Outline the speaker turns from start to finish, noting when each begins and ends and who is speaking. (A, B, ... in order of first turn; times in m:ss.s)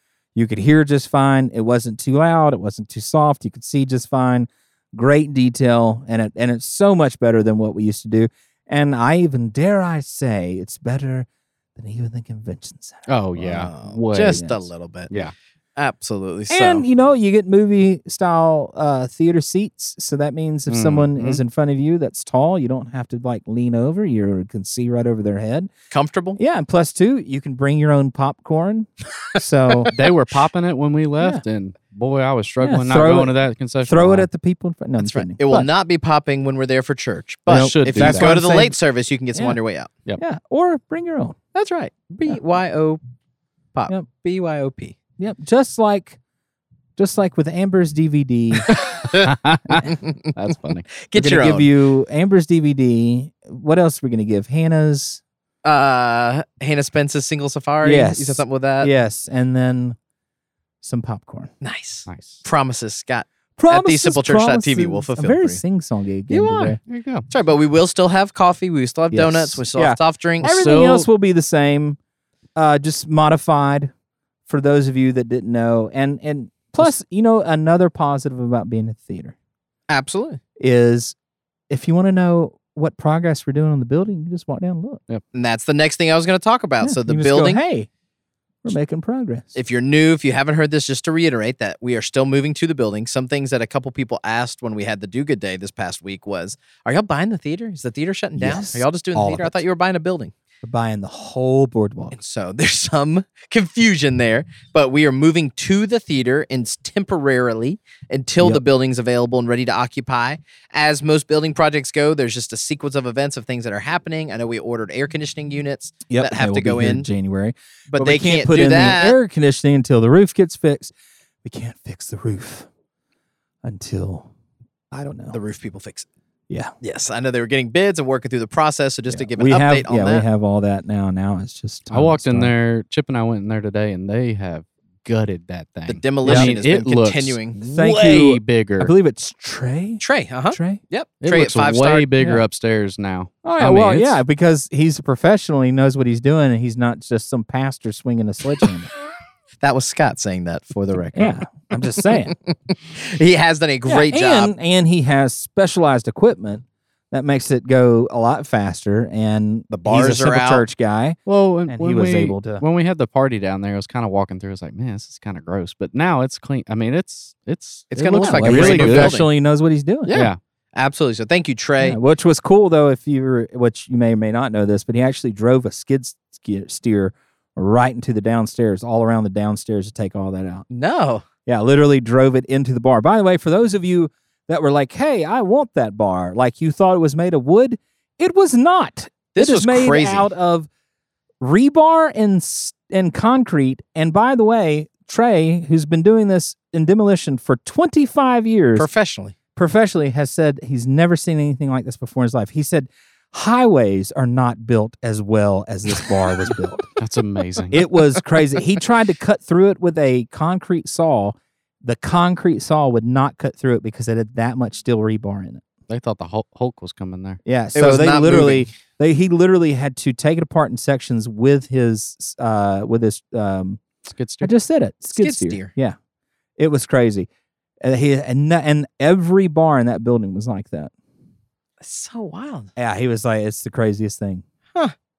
0:00.4-0:13.1 A
0:13.1-0:14.4 B
0:13.4-0:15.1 C
0:14.3-0:14.6 A
0:15.8-0:16.9 C
0:16.5-0:25.7 A
0:20.7-0:21.4 B
0:25.9-0:26.4 C
0:26.4-0:29.9 A
0:29.9-0:34.3 B
0:32.6-0:35.7 A
0:35.0-0:39.9 C
0:37.5-0:38.7 A
0:37.5-0:38.4 B
0:40.2-0:41.4 A
0:41.5-0:43.0 C
0:43.8-0:45.0 C
0:45.2-0:46.2 A
0:47.0-0:48.8 A
0:48.8-0:50.3 C
0:49.2-0:50.9 B
0:50.9-0:51.7 C
0:51.1-0:55.2 A
0:55.6-0:58.9 C
0:57.8-1:00.0 A
1:00.8-1:01.5 A
1:01.6-1:05.6 C
1:02.1-1:02.4 B
1:03.6-1:06.8 A
1:06.3-1:10.6 C
1:06.8-1:07.2 B
1:09.1-1:12.0 A
1:10.4-1:11.1 B
1:12.6-1:13.9 A
1:14.5-1:19.4 A
1:19.9-1:20.4 C
1:20.6-1:21.1 A
1:21.7-1:25.0 A
1:25.3-1:27.6 C
1:26.8-1:27.9 A
1:28.6-1:29.5 A
1:29.6-1:40.3 C
1:38.4-1:39.6 A
1:40.6-1:42.2 A
1:42.1-1:57.1 C
1:56.1-2:00.9 A
1:57.9-1:59.2 C
2:01.4-2:02.7 A
2:03.6-2:04.3 A
2:04.9-2:05.4 A
2:05.3-2:06.1 C
2:06.8-2:10.2 C
2:09.1-2:12.5 A
2:11.9-2:18.9 B
2:15.9-2:17.6 C
2:16.2-2:16.5 A
2:17.6-2:20.8 A
2:20.0-2:22.1 C
2:21.2-2:24.2 B
2:22.2-2:22.4 A
2:23.4-2:28.9 A
2:29.6-2:34.5 C
2:31.1-2:32.3 A
2:33.9-2:42.6 A
2:39.7-2:40.6 C
2:41.2-2:49.2 B
2:47.9-2:49.3 C
2:48.2-2:50.2 A
2:50.1-2:52.0 C
2:50.1-2:50.4 B
2:51.8-3:00.6 A
3:00.7-3:01.2 C
3:01.5-3:10.7 A
3:09.3-3:10.3 C
3:11.4-3:18.9 A
3:18.8-3:19.4 C
3:19.6-3:26.9 A
3:27.0-3:27.8 B
3:27.7-3:35.6 A
3:35.9-3:37.4 B
3:37.4-3:43.8 A
3:37.7-3:38.7 C
3:44.1-3:44.5 B
3:44.4-3:46.0 A
3:45.1-3:45.7 C
3:46.6-3:47.3 A
3:47.8-3:50.9 A
3:51.8-3:52.7 C
3:52.8-3:54.4 A